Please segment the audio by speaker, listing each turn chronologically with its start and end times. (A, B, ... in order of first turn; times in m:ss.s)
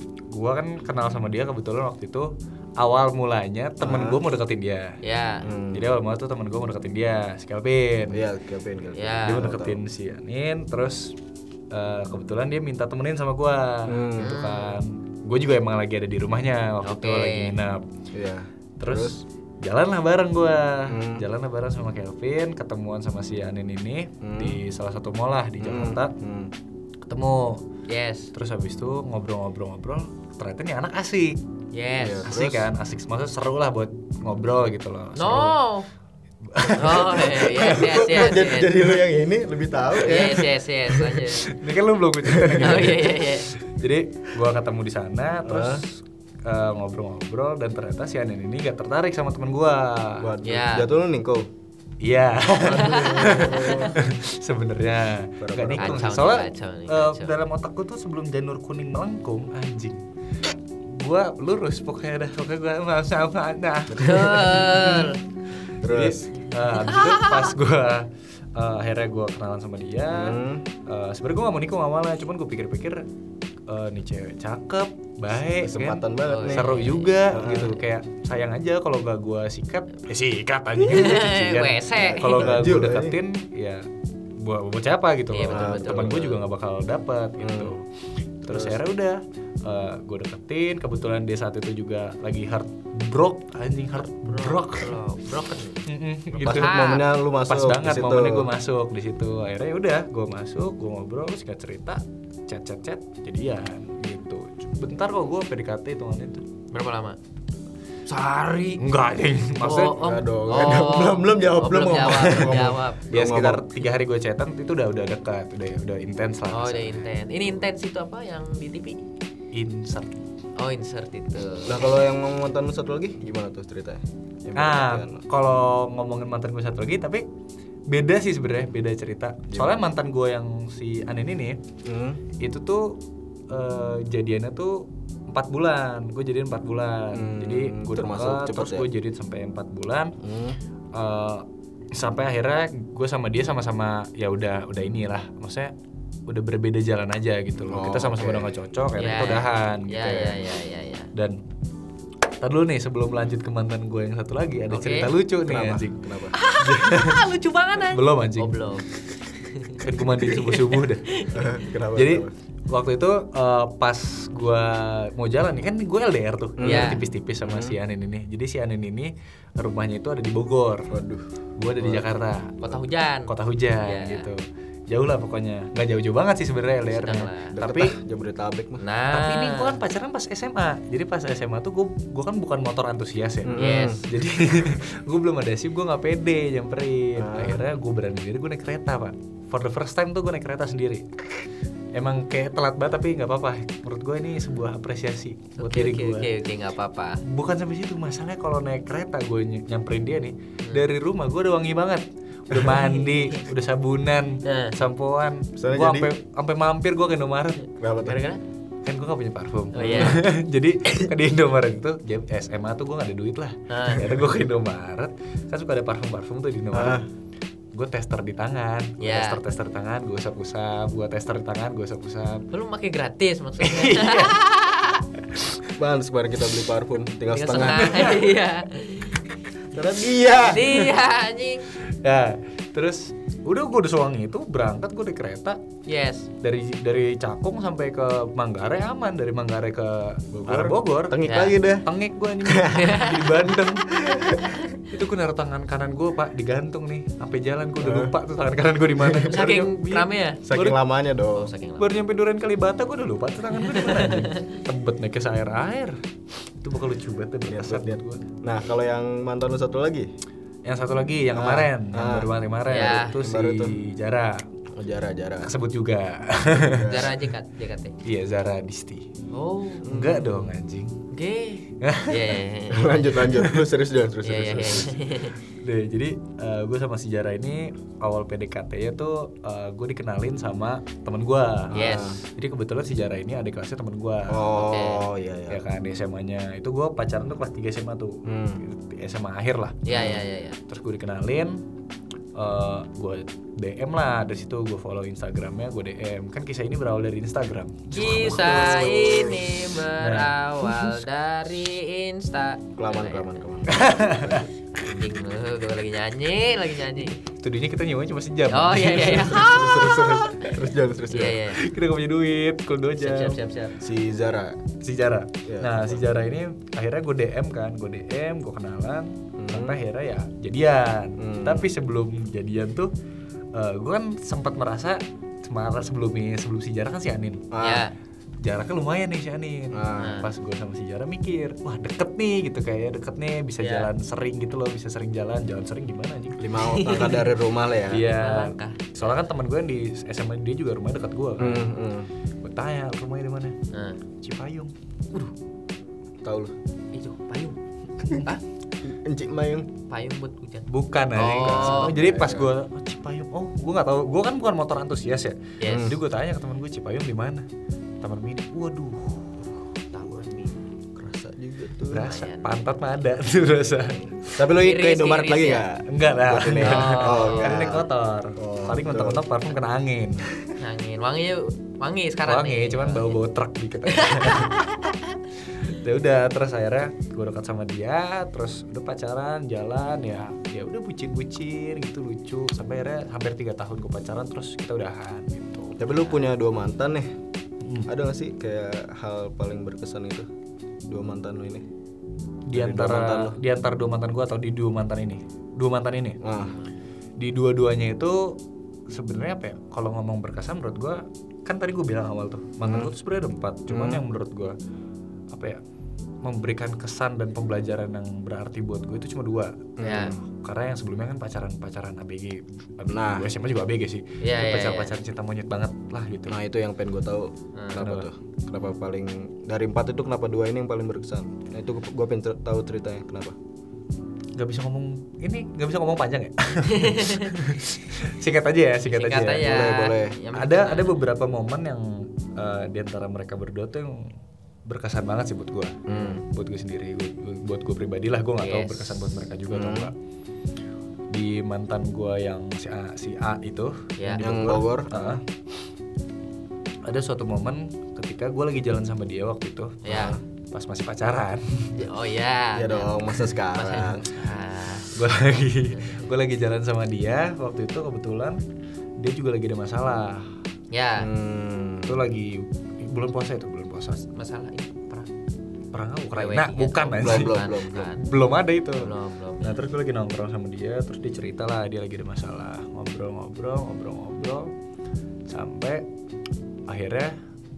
0:00.3-0:05.0 A
0:03.8-0:04.2 B
0:05.0-0:05.5 C
0:05.4-0:05.9 B
0:05.7-0:08.2 A
0:08.1-0:09.8 B
0:09.0-0:09.5 C
0:09.2-0:11.2 A
0:11.7-0:17.9 A
0:13.9-0:14.4 B
0:14.2-0:14.8 C
0:16.8-0:17.6 C
0:18.1-0:19.2 B
0:18.8-0:26.1 A
0:20.9-0:21.2 B
0:24.2-0:24.6 B
0:25.6-0:26.5 B
0:27.0-0:27.7 A
0:27.9-0:28.3 C
0:28.3-0:31.4 A
0:31.7-0:32.3 C
0:32.0-0:32.7 B
0:32.2-0:35.6 A
0:35.2-0:35.9 C
0:36.4-0:38.3 A
0:36.7-0:38.8 C
0:37.3-0:41.2 B
0:40.0-0:41.5 C
0:41.4-0:50.3 A
0:42.3-0:42.7 B
0:42.6-0:43.5 C
0:45.4-0:45.8 B
0:50.2-0:51.5 B
0:50.4-0:50.9 C
0:52.0-1:05.1 A
0:52.6-0:54.0 B
0:52.7-0:53.9 C
0:55.4-0:56.2 B
0:55.8-0:57.3 C
1:03.9-1:04.2 B
1:04.0-1:05.2 C
1:05.8-1:06.3 B
1:05.9-1:13.0 A
1:06.6-1:07.5 C
1:10.1-1:10.7 B
1:13.7-1:23.9 A
1:15.5-1:16.7 B
1:16.3-1:17.1 C
1:17.3-1:17.8 B
1:20.8-1:22.5 C
1:21.9-1:23.2 B
1:24.4-1:27.8 A
1:25.3-1:26.4 C
1:25.5-1:26.3 B
1:27.4-1:27.8 B
1:28.4-1:35.0 A
1:28.4-1:28.8 B
1:34.0-1:35.8 C
1:35.8-1:36.9 A
1:36.3-1:38.5 B
1:36.4-1:37.1 C
1:37.5-1:46.5 A
1:46.7-1:47.2 C
1:48.1-1:48.8 C
1:48.8-1:50.0 A
1:49.6-1:53.0 C
1:50.0-1:53.7 B
1:53.1-1:57.1 A
1:56.5-1:59.0 C
1:59.5-2:00.2 A
2:00.6-2:01.9 C
2:01.6-2:05.2 B
2:04.6-2:07.2 A
2:07.9-2:11.6 A
2:11.8-2:12.2 B
2:12.4-2:20.2 A
2:17.1-2:18.9 B
2:20.2-2:20.6 B
2:20.9-2:25.7 A
2:26.3-2:30.4 A
2:27.7-2:28.6 B
2:29.0-2:31.1 C
2:31.1-2:31.4 A
2:32.4-2:36.0 A
2:34.7-2:35.1 C
2:35.5-2:36.4 B
2:36.3-2:41.5 C
2:36.6-2:38.7 A
2:39.7-2:41.1 A
2:41.3-2:42.3 B
2:42.0-2:50.9 A
2:46.6-2:47.8 B
2:46.6-2:47.0 C
2:50.9-2:52.0 B
2:51.6-2:52.6 A
2:52.6-2:53.3 C
2:53.3-2:58.0 A
2:53.8-2:54.3 C
2:56.9-2:57.5 C
2:57.5-2:58.8 B
2:58.8-2:59.8 C
2:59.1-3:16.3 A
3:03.4-3:04.0 B
3:03.5-3:04.1 C
3:07.2-3:07.6 B
3:15.6-3:17.2 C
3:17.2-3:27.6 A
3:22.8-3:23.4 C
3:24.4-3:24.8 C
3:25.6-3:26.1 B
3:27.8-3:28.3 B
3:28.0-3:28.4 C
3:28.8-3:37.0 A
3:29.8-3:30.2 C
3:29.8-3:30.2 B
3:33.7-3:34.2 C
3:36.7-3:37.1 B
3:37.7-3:42.5 A
3:39.0-3:39.4 C
3:42.5-3:45.0 C
3:43.6-3:44.4 A
3:45.8-3:48.2 B
3:47.3-3:49.3 C
3:47.8-3:48.2 A
3:49.7-3:50.7 B
3:50.4-3:51.7 C
3:50.6-3:50.9 A
3:52.0-3:55.6 A
3:55.9-3:56.3 C
3:56.4-4:01.3 A
4:00.3-4:01.8 B
4:01.3-4:01.6 C
4:01.8-4:04.0 A
4:02.4-4:02.9 B
4:02.7-4:03.5 C
4:03.9-4:04.6 B
4:04.8-4:10.8 A
4:07.8-4:08.1 B
4:09.2-4:10.4 C
4:10.4-4:11.5 B
4:11.3-4:11.9 C
4:11.8-4:16.0 A
4:13.6-4:14.4 C
4:16.6-4:18.3 A
4:17.5-4:20.1 B
4:20.6-4:24.5 A
4:21.3-4:22.3 B
4:22.7-4:23.2 C
4:23.2-4:23.8 B
4:24.8-4:25.5 B
4:25.4-4:26.9 A
4:26.5-4:27.2 B
4:26.9-4:28.0 C
4:28.0-4:29.1 A
4:29.3-4:30.2 C
4:29.8-4:30.3 B
4:29.9-4:31.0 A
4:31.1-4:33.4 C
4:31.8-4:32.3 A
4:32.7-4:35.0 B
4:34.2-4:35.4 C
4:35.6-4:44.6 A
4:41.7-4:42.2 B
4:41.7-4:42.2 C
4:44.3-4:45.6 B
4:44.6-4:45.1 C
4:45.5-4:49.8 A
4:48.3-4:48.6 B
4:49.8-4:50.6 C
4:49.9-4:50.3 B
4:50.7-4:51.6 A
4:52.4-4:58.9 A
4:57.9-5:03.3 C
4:58.0-4:59.6 B
5:00.0-5:01.0 A
5:02.8-5:04.4 B
5:03.7-5:04.5 A
5:04.7-5:07.2 C
5:07.3-5:10.5 A
5:08.5-5:10.3 C
5:09.3-5:11.4 B
5:11.1-5:11.6 C
5:11.5-5:13.4 A
5:13.0-5:13.8 C
5:13.8-5:14.6 B
5:14.8-5:22.9 A
5:15.5-5:16.1 B
5:19.4-5:19.8 B
5:21.2-5:21.7 B
5:23.6-5:27.5 A
5:27.5-5:27.9 B
5:27.6-5:27.9 C
5:28.4-5:36.5 A
5:29.7-5:30.2 B
5:30.0-5:30.3 C
5:33.6-5:33.9 C
5:36.4-5:38.0 B
5:36.6-5:37.3 C
5:37.9-5:41.7 A
5:38.0-5:39.2 C
5:41.4-5:42.1 B
5:42.4-5:43.6 A
5:43.7-5:44.0 C
5:44.2-5:44.7 A
5:46.2-5:46.5 B
5:46.9-5:47.6 C
5:48.1-5:48.3 A
5:48.1-5:48.4 C
5:48.8-5:49.7 B
5:49.9-5:52.0 C
5:50.7-5:57.5 A
5:51.5-5:52.5 B
5:55.6-5:55.9 C
5:55.6-5:56.0 B
5:58.0-5:59.4 A
5:59.9-6:00.6 C
6:01.0-6:02.1 B
6:01.9-6:04.2 A
6:02.0-6:02.7 C
6:04.3-6:07.8 B
6:04.4-6:05.7 C
6:05.9-6:10.3 A
6:06.6-6:07.8 C
6:08.4-6:09.2 B
6:10.6-6:13.2 C
6:12.2-6:14.8 A
6:13.9-6:15.1 C
6:15.6-6:26.1 A
6:25.8-6:27.1 B
6:27.6-6:27.9 A
6:27.9-6:30.3 B
6:30.9-6:31.7 B
6:32.5-6:36.2 A
6:32.5-6:33.4 B
6:36.2-6:36.6 B
6:37.2-6:38.4 A
6:38.9-6:44.6 A
6:42.6-6:42.9 B
6:43.7-6:44.0 B
6:45.3-6:45.6 A
6:46.2-6:56.4 A
6:49.8-6:50.2 B
6:49.8-6:50.2 C
6:52.9-6:53.3 B
6:54.2-6:54.9 C
6:56.3-7:03.4 B
6:57.6-6:58.0 C
6:57.8-6:58.0 A
7:04.4-7:09.5 A
7:06.7-7:07.3 C
7:08.9-7:11.0 C
7:09.4-7:10.2 B
7:10.3-7:14.1 A
7:14.7-7:19.9 A
7:15.9-7:16.2 B
7:18.4-7:19.0 C
7:19.5-7:19.9 B
7:21.1-7:25.2 A
7:24.0-7:24.3 C
7:24.2-7:25.2 B
7:26.9-7:31.8 A
7:29.8-7:30.2 C
7:29.9-7:30.2 B
7:31.8-7:36.0 C
7:32.5-7:34.1 B
7:34.9-7:38.4 A
7:39.0-7:40.4 A
7:40.7-7:41.1 C
7:41.0-7:42.0 B
7:41.8-7:44.1 A
7:44.1-7:45.1 C
7:45.7-7:54.5 A
7:46.1-7:48.0 C
7:47.0-7:47.9 B
7:48.8-7:49.6 C
7:55.3-7:55.9 A
7:56.7-7:57.2 A